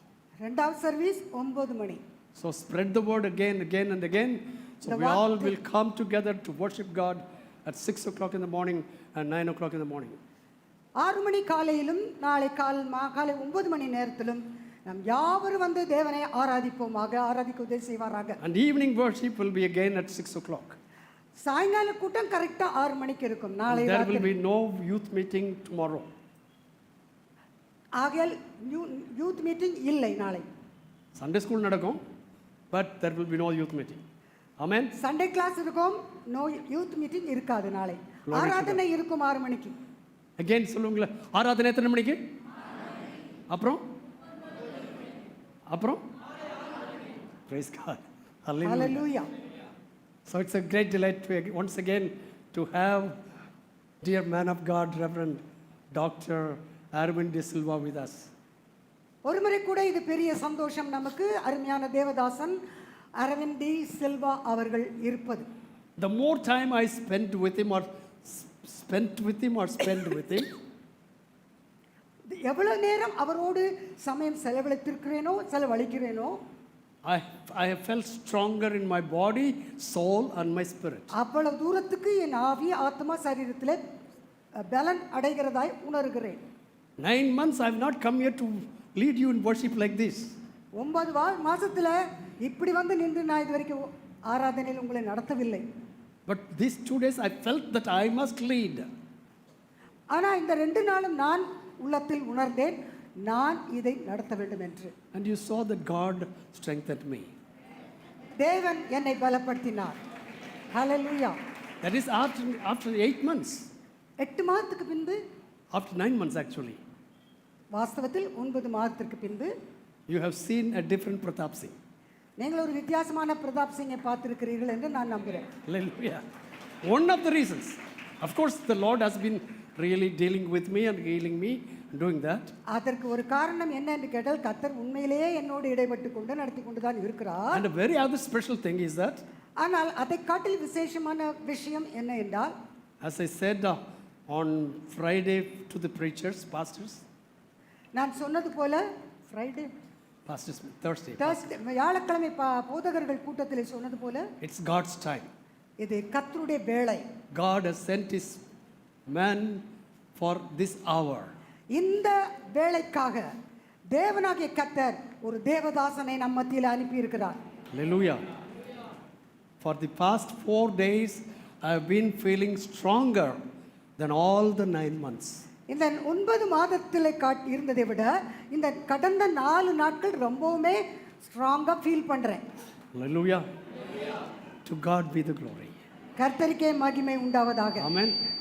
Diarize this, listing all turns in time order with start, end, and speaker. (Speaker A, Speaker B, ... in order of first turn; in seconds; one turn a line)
Speaker A: 0.4-2.0
Speaker B: 2.4-10.2
Speaker A: 4.9-5.5
Speaker A: 11.0-18.4
Speaker B: 18.4-20.8
Speaker A: 21.4-24.3
Speaker B: 23.7-26.1
Speaker A: 28.0-30.5
Speaker B: 31.1-32.0
Speaker B: 32.7-34.0
Speaker B: 34.6-34.9
Speaker A: 35.0-39.8
Speaker B: 38.3-38.8
Speaker B: 40.4-42.2
Speaker B: 43.5-43.8
Speaker B: 45.7-46.0
Speaker B: 47.5-49.0
Speaker A: 48.6-49.3
Speaker B: 50.3-53.2
Speaker B: 54.0-55.4
Speaker B: 55.9-58.3
Speaker A: 59.2-62.6
Speaker A: 63.2-65.5
Speaker B: 66.0-70.5
Speaker A: 72.3-76.4
Speaker B: 77.0-81.1
Speaker A: 81.2-83.8
Speaker A: 84.6-86.4
Speaker B: 87.0-90.3
Speaker A: 90.8-95.6
Speaker B: 96.3-98.9
Speaker A: 100.1-104.9
Speaker B: 105.1-107.3
Speaker A: 108.4-110.0
Speaker A: 110.7-111.3
Speaker B: 111.8-113.7
Speaker A: 114.2-115.2
Speaker B: 115.7-116.8
Speaker A: 117.7-119.5
Speaker B: 120.1-121.8
Speaker A: 122.4-125.5
Speaker B: 125.6-126.2
Speaker B: 126.8-132.5
Speaker A: 132.7-137.6
Speaker B: 137.5-139.2
Speaker A: 139.6-142.5
Speaker B: 143.0-147.0
Speaker A: 148.0-149.7
Speaker B: 150.3-151.5
Speaker A: 151.2-154.3
Speaker B: 154.4-155.3
Speaker A: 155.8-157.1
Speaker B: 157.3-158.4
Speaker B: 159.1-159.6
Speaker B: 160.2-161.3
Speaker A: 161.7-163.3
Speaker A: 163.9-167.4
Speaker B: 167.7-168.2
Speaker B: 169.6-173.4
Speaker B: 174.0-175.4
Speaker A: 175.7-182.4
Speaker B: 182.9-183.4
Speaker B: 184.7-185.7
Speaker A: 186.2-187.9
Speaker B: 187.8-188.2